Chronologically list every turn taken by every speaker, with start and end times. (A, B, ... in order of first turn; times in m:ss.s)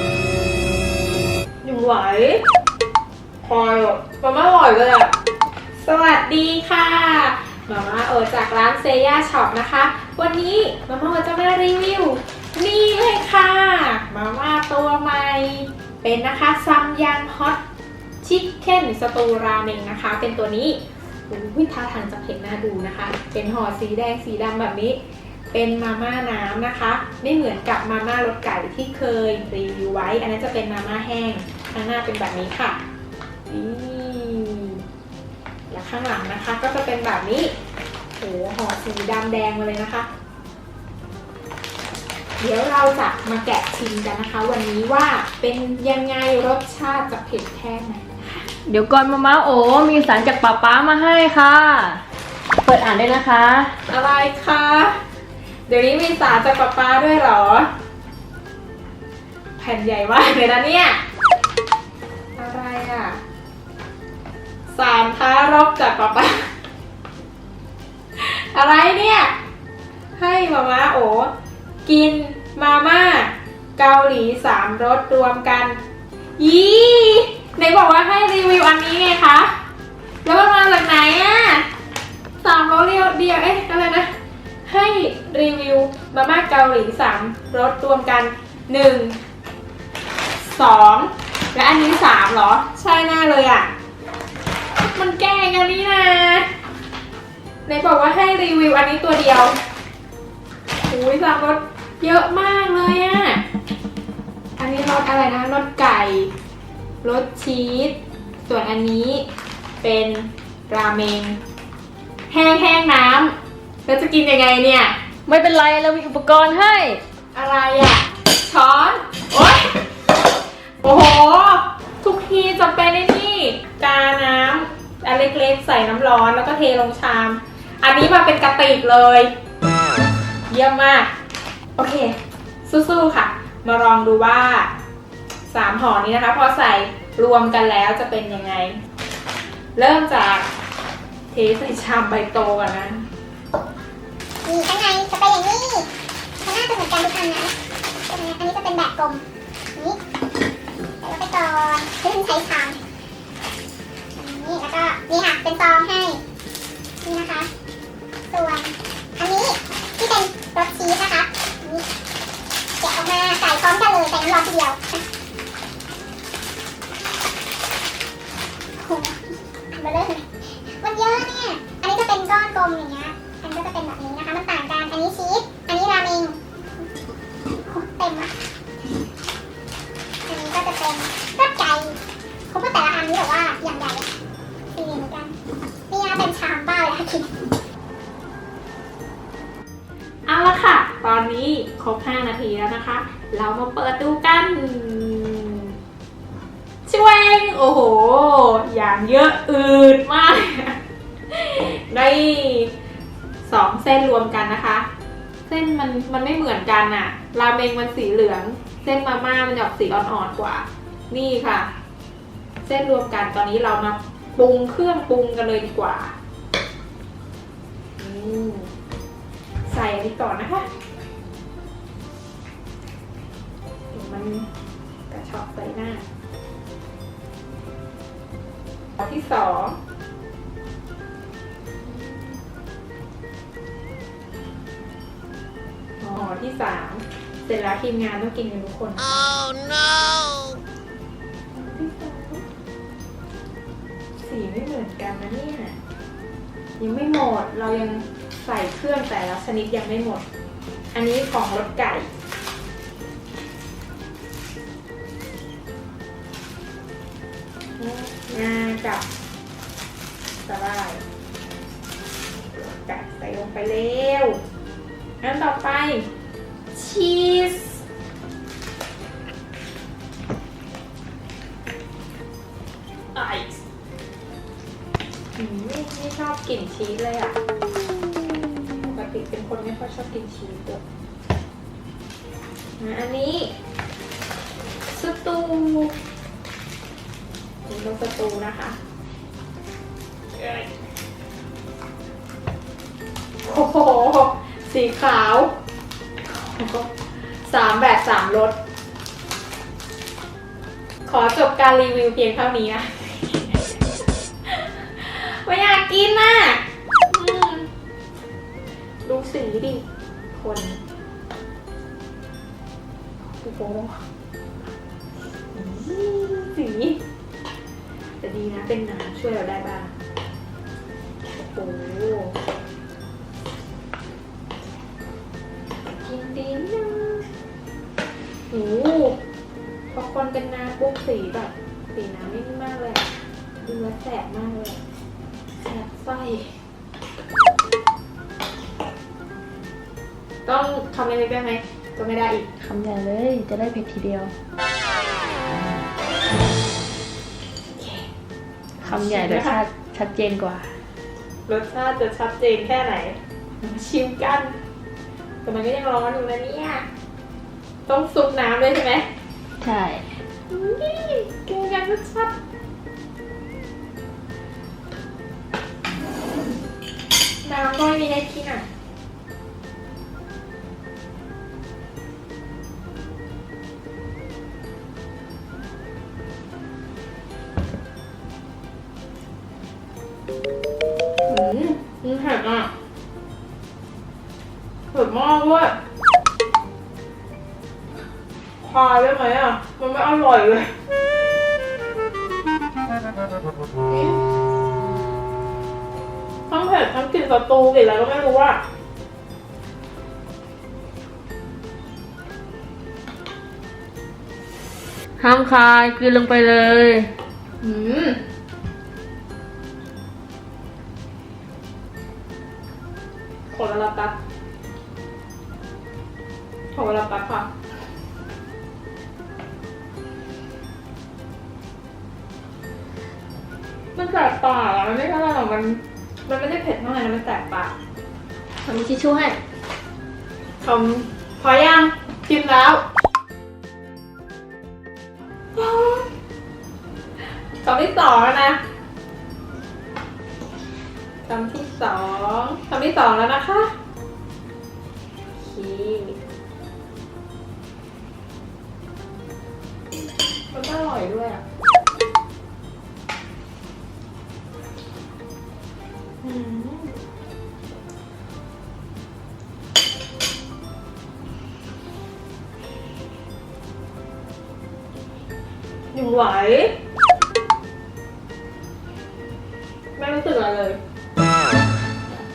0:01.6-0:02.4 A
0:03.4-0:05.1 A
0:05.8-0:17.6 A
0:18.2-0:25.0 A
0:25.5-0:32.8 A
0:33.5-0:34.8 A
0:35.7-0:37.5 A
0:38.2-0:40.1 A
0:42.4-0:48.5 A
0:48.7-0:52.0 B
0:52.6-0:53.7 B
0:53.9-0:55.0 A
0:55.7-0:57.7 A
0:59.6-1:01.0 A
1:02.4-1:03.2 A
1:04.7-1:06.5 A
1:08.1-1:09.3 A
1:10.2-1:11.3 A
1:11.8-1:15.8 A
1:16.4-1:19.5 A
1:20.2-1:21.6 A
1:22.4-1:24.1 A
1:24.6-1:29.2 A
1:30.4-1:33.7 A
1:34.8-1:36.5 A
1:37.6-1:39.6 A
1:40.9-1:43.4 A
1:44.6-1:46.3 A
1:47.0-1:49.2 A
1:49.8-1:51.4 A
1:52.3-1:53.3 A
1:53.8-1:54.9 A
1:55.3-1:57.0 B
1:57.3-1:59.8 A
2:00.8-2:09.3 A
2:10.5-2:11.1 A
2:11.8-2:14.7 A
2:15.5-2:18.8 A
2:19.8-2:20.5 A
2:21.3-2:23.0 A
2:24.4-2:25.9 C
2:26.4-2:27.5 C
2:28.1-2:29.2 C
2:31.0-2:32.8 C
2:34.2-2:36.2 C
2:37.0-2:37.5 C
2:38.3-2:41.8 C
2:42.8-2:45.0 C
2:48.8-2:56.4 C
2:57.6-2:58.3 C
3:00.3-3:02.0 C
3:02.5-3:04.1 C
3:04.7-3:05.3 C
3:05.9-3:07.3 C
3:10.3-3:15.7 A
3:16.8-3:20.8 A
3:21.3-3:22.7 A
3:23.4-3:24.9 A
3:25.4-3:31.7 A
3:32.6-3:36.1 A
3:38.0-3:38.7 A
3:39.6-3:40.7 A
3:43.9-3:44.5 A
3:45.1-3:46.0 A
3:49.0-3:49.8 A
3:51.8-3:52.4 A
3:56.0-3:59.1 A
4:01.5-4:02.4 A
4:04.2-4:05.8 A
4:06.8-4:10.2 A
4:10.9-4:12.1 A
4:17.8-4:19.0 A
4:20.4-4:21.0 A
4:22.5-4:24.4 A
4:25.2-4:26.0 A
4:26.7-4:27.8 A
4:33.1-4:33.6 A
4:35.4-4:37.4 A
4:38.7-4:40.8 A
4:42.8-4:43.5 A
4:44.9-4:45.9 A
4:47.6-4:48.8 A
4:50.3-4:50.7 A
4:53.4-4:55.5 A
4:56.2-4:56.9 A
4:57.4-4:58.5 A
5:01.0-5:07.7 A
5:09.0-5:10.8 A
5:13.4-5:14.0 A
5:15.5-5:17.0 A
5:18.2-5:19.9 A
5:21.2-5:22.3 A
5:25.9-5:27.3 A
5:28.5-5:29.2 A
5:29.9-5:33.1 A
5:33.6-5:34.8 A
5:35.6-5:36.6 A
5:40.4-5:42.4 A
5:42.6-5:44.3 B
5:47.8-5:48.1 A
5:48.8-5:50.7 B
5:48.8-5:49.6 A
5:51.5-5:54.5 A
5:55.4-5:56.9 A
5:57.9-5:59.1 A
5:59.6-6:00.0 B
6:00.5-6:02.3 A
6:07.4-6:08.6 A
6:21.3-6:22.7 A
6:24.9-6:25.8 A
6:28.6-6:30.7 A
6:36.5-6:38.6 A
6:45.2-6:47.1 B
6:47.6-6:48.2 A
6:53.5-6:54.2 A
6:56.7-6:57.5 A
7:03.9-7:07.7 A
7:08.6-7:09.4 B
7:10.6-7:12.8 A
7:15.5-7:16.1 A
7:17.6-7:18.6 A
7:21.2-7:23.7 A
7:25.4-7:26.2 A
7:30.5-7:31.4 A
7:36.2-7:36.9 A
7:45.9-7:46.7 A
7:50.0-7:50.8 A